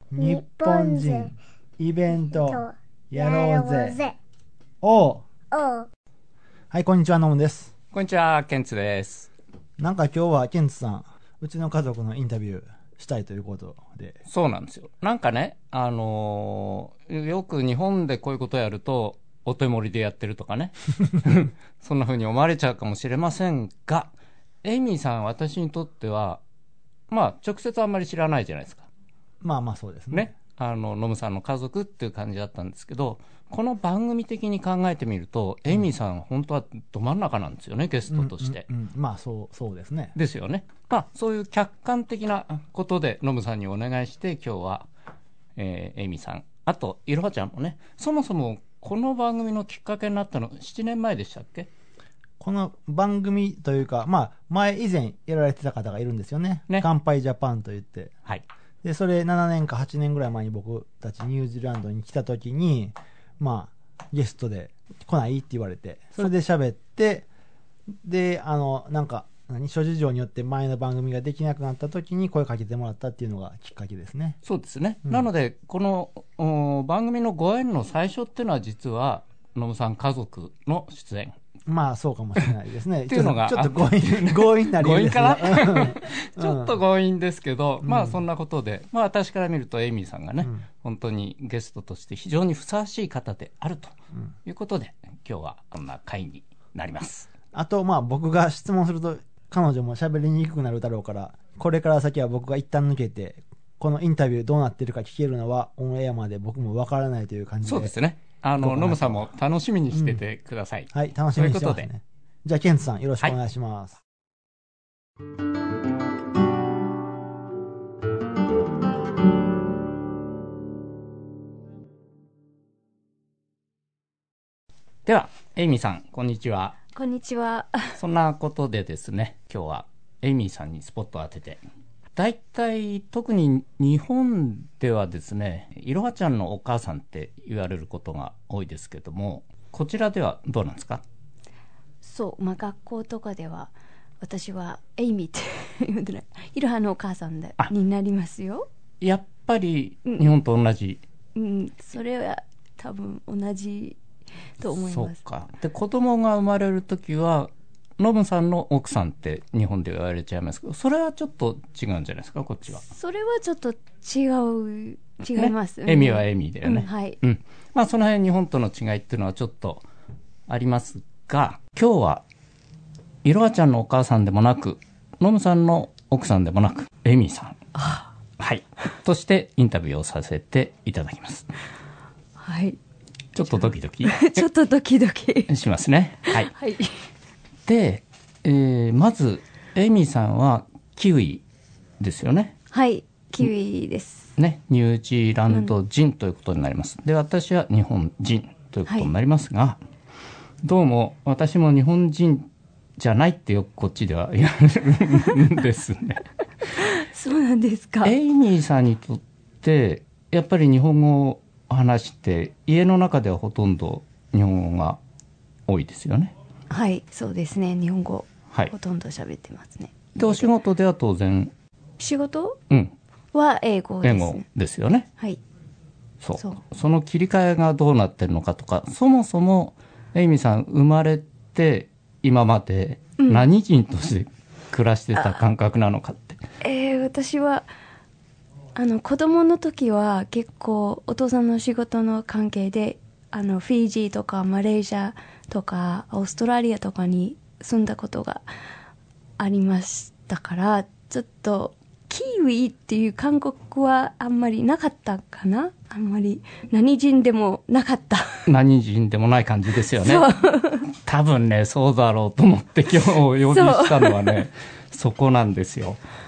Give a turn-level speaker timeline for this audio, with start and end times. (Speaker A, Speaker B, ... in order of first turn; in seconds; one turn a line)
Speaker A: 0.1-4.1
Speaker A: 4.8-5.7
Speaker A: 6.7-7.7
Speaker B: 7.9-9.3
Speaker A: 9.8-14.2
Speaker B: 14.3-24.1
Speaker B: 24.6-26.4
Speaker B: 27.1-28.9
Speaker A: 29.4-30.3
Speaker B: 30.1-38.6
Speaker A: 38.1-40.1
Speaker B: 40.1-44.9
Speaker B: 45.5-51.7
Speaker A: 52.4-58.1
Speaker A: 58.8-67.3
Speaker A: 68.0-74.4
Speaker B: 74.4-81.4
Speaker A: 81.7-86.8
Speaker B: 83.1-93.9
Speaker A: 87.8-88.2
Speaker B: 94.5-97.3
Speaker A: 97.5-107.9
Speaker B: 107.6-111.9
Speaker A: 108.6-109.2
Speaker A: 109.9-110.2
Speaker A: 110.9-114.0
Speaker B: 125.0-126.8
Speaker C: 126.9-128.0
Speaker B: 128.0-131.6
Speaker B: 132.1-141.0
Speaker C: 142.0-148.7
Speaker B: 149.0-151.0
Speaker C: 151.3-154.0
Speaker C: 154.6-155.2
Speaker B: 154.7-162.8
Speaker C: 162.8-167.2
Speaker B: 165.3-169.8
Speaker B: 170.5-172.2
Speaker B: 173.2-177.6
Speaker C: 177.8-178.1
Speaker B: 178.4-181.5
Speaker C: 182.4-182.8
Speaker B: 183.3-184.4
Speaker C: 183.4-185.6
Speaker B: 185.5-186.5
Speaker C: 186.2-186.9
Speaker B: 187.7-191.4
Speaker B: 192.0-192.6
Speaker C: 192.7-194.3
Speaker B: 194.4-199.8
Speaker B: 200.6-206.2
Speaker C: 206.7-208.1
Speaker B: 208.0-215.0
Speaker B: 215.7-216.3
Speaker C: 216.7-220.5
Speaker B: 220.2-221.5
Speaker C: 222.0-222.6
Speaker C: 223.3-224.4
Speaker B: 224.0-225.1
Speaker B: 226.2-236.4
Speaker C: 226.4-226.6
Speaker C: 233.2-233.4
Speaker C: 235.2-235.4
Speaker C: 236.6-237.7
Speaker C: 238.8-248.4
Speaker C: 249.4-258.5
Speaker B: 258.4-260.3
Speaker C: 260.0-260.9
Speaker B: 260.9-266.0
Speaker C: 263.5-264.4